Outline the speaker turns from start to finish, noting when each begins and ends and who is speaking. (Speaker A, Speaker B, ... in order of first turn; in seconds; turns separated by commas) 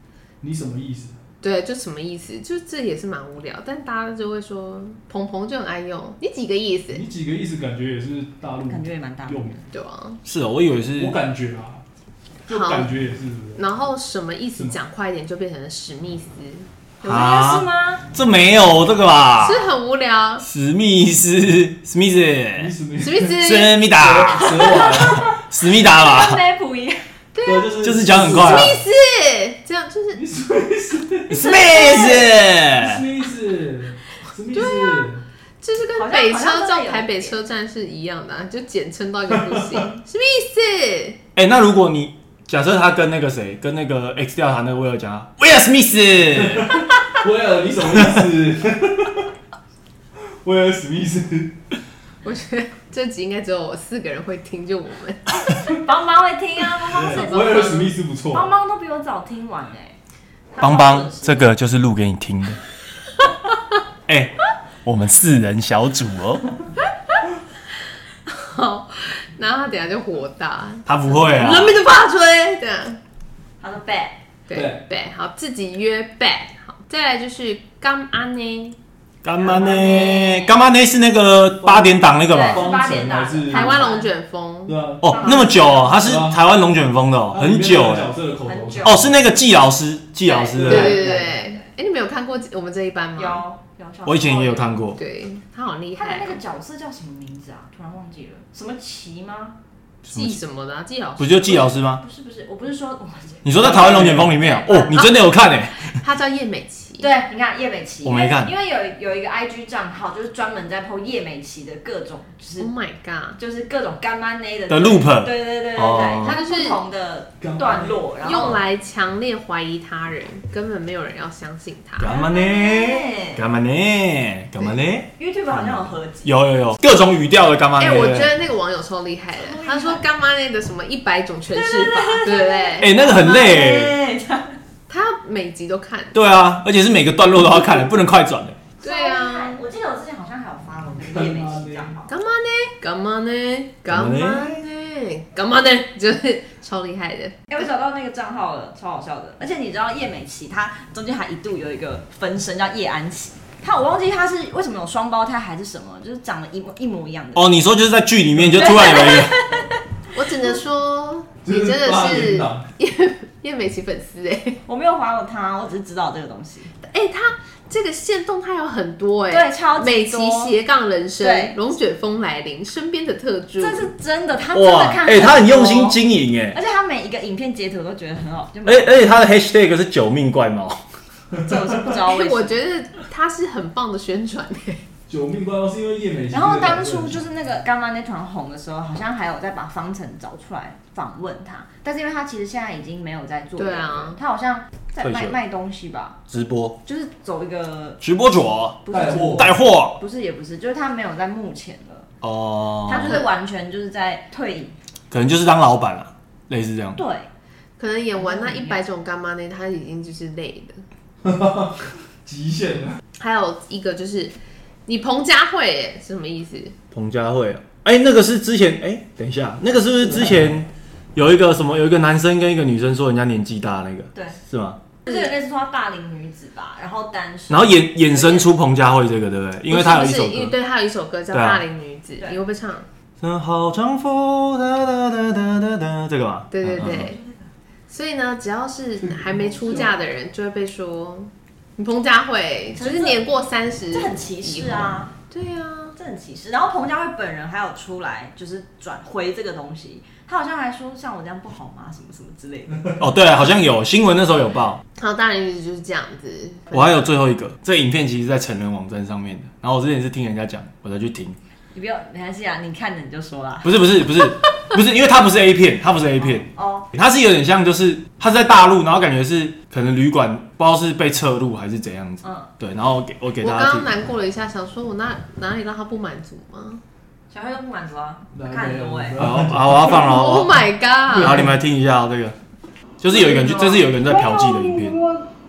Speaker A: 0.4-1.2, Speaker B: 1.4-7.0, Speaker A: 6.9-9.6, Speaker C: 8.7-9.6, Speaker B: 9.7-10.2, Speaker D: 10.2-11.2, Speaker A: 11.0-11.8, Speaker A: 12.5-13.6, Speaker B: 12.5-12.9, Speaker B: 13.6-16.7, Speaker C: 17.0-18.0, Speaker D: 17.0-19.6, Speaker B: 19.4-20.4, Speaker D: 20.4-22.7, Speaker A: 22.6-23.4, Speaker B: 23.0-23.8, Speaker D: 23.3-24.5, Speaker A: 23.9-25.4, Speaker C: 24.4-27.0, Speaker D: 25.1-26.4, Speaker B: 27.3-27.8, Speaker A: 27.4-28.8, Speaker D: 27.8-28.8, Speaker B: 28.4-30.2, Speaker A: 30.1-31.8, Speaker D: 31.3-33.0, Speaker B: 31.5-32.2, Speaker A: 32.7-35.2, Speaker B: 34.5-35.1, Speaker B: 35.6-41.2, Speaker C: 36.0-37.4, Speaker A: 39.4-39.8, Speaker D: 41.3-46.8, Speaker A: 46.3-49.3, Speaker D: 48.0-48.2, Speaker A: 50.4-51.5, Speaker B: 52.2-55.5, Speaker C: 55.8-60.0, Speaker A: 56.9-58.5, Speaker B: 57.1-57.9, Speaker C: 60.5-61.5, Speaker D: 60.6-62.6, Speaker D: 64.1-66.5, Speaker B: 68.3-71.1, Speaker D: 70.8-71.8, Speaker C: 71.3-72.6, Speaker B: 72.6-73.0, Speaker C: 73.6-74.2, Speaker B: 74.5-78.8, Speaker A: 74.5-74.8, Speaker D: 79.2-82.6, Speaker C: 79.4-80.5, Speaker C: 82.3-84.1, Speaker A: 82.4-83.9, Speaker B: 83.5-85.3, Speaker A: 84.7-85.3, Speaker D: 85.0-88.1, Speaker C: 85.1-85.8, Speaker A: 85.9-86.4, Speaker A: 87.3-89.2, Speaker C: 88.4-89.0, Speaker D: 88.8-91.0, Speaker C: 90.2-91.6, Speaker A: 90.5-91.3, Speaker B: 90.6-93.4, Speaker C: 93.2-94.8, Speaker D: 94.0-95.0, Speaker B: 95.0-96.4, Speaker C: 95.9-99.5, Speaker B: 100.0-101.7, Speaker D: 100.1-100.4, Speaker D: 101.2-102.0, Speaker C: 102.0-104.9, Speaker D: 103.4-106.0, Speaker A: 103.5-104.3, Speaker B: 104.9-105.2, Speaker B: 105.9-107.1, Speaker C: 107.0-112.7, Speaker D: 108.0-108.5, Speaker B: 112.6-113.4, Speaker C: 113.4-118.6, Speaker D: 114.7-116.3, Speaker B: 116.2-116.8, Speaker A: 117.4-118.0, Speaker B: 118.2-122.2, Speaker D: 122.0-128.3, Speaker C: 122.0-123.4, Speaker C: 125.2-126.4, Speaker B: 127.8-132.9, Speaker C: 129.3-130.1, Speaker C: 131.5-134.6, Speaker D: 132.8-133.9, Speaker B: 134.9-136.2, Speaker D: 136.1-138.6, Speaker B: 138.8-139.6, Speaker C: 138.8-142.1, Speaker A: 141.0-142.0, Speaker B: 142.1-147.6, Speaker D: 143.9-144.6, Speaker C: 147.5-157.5, Speaker D: 157.3-159.3, Speaker C: 158.6-159.8, Speaker B: 160.1-164.6, Speaker A: 161.4-162.7, Speaker C: 164.7-166.7, Speaker B: 166.8-173.9, Speaker C: 169.3-170.5, Speaker C: 171.2-171.5, Speaker C: 173.6-176.0, Speaker D: 174.5-176.6, Speaker C: 176.5-179.0, Speaker D: 178.6-180.8, Speaker C: 181.4-182.6, Speaker B: 182.1-184.8, Speaker A: 185.1-187.2, Speaker C: 186.3-196.2, Speaker B: 193.6-194.2, Speaker D: 195.0-195.4, Speaker D: 196.3-196.8, Speaker C: 196.8-198.0, Speaker D: 198.0-198.8, Speaker C: 198.8-202.1, Speaker A: 198.9-199.5, Speaker D: 199.3-200.0, Speaker D: 202.2-203.2, Speaker C: 202.8-204.8, Speaker D: 205.1-207.0, Speaker C: 206.9-207.3, Speaker B: 207.8-210.8, Speaker C: 208.2-208.8, Speaker A: 211.2-213.0, Speaker B: 213.2-214.3, Speaker B: 214.9-216.7, Speaker D: 216.9-224.8, Speaker A: 220.1-220.5, Speaker C: 224.1-224.4, Speaker C: 225.0-228.5, Speaker D: 227.5-230.5, Speaker B: 229.7-232.8, Speaker D: 231.3-231.6, Speaker D: 233.2-237.1, Speaker B: 236.5-237.2, Speaker C: 236.8-237.4, Speaker B: 237.9-245.9, Speaker C: 239.6-240.0, Speaker C: 242.8-243.2, Speaker C: 243.9-245.1, Speaker C: 246.0-252.9, Speaker D: 253.0-254.8, Speaker B: 255.0-257.0, Speaker D: 256.7-261.4, Speaker C: 261.7-263.8, Speaker D: 263.6-273.9, Speaker C: 266.2-266.9, Speaker C: 272.2-272.5, Speaker B: 273.4-276.8, Speaker C: 277.3-279.2, Speaker A: 278.3-280.1, Speaker D: 279.2-282.4, Speaker B: 279.9-281.4, Speaker D: 283.0-285.0, Speaker E: 283.1-285.2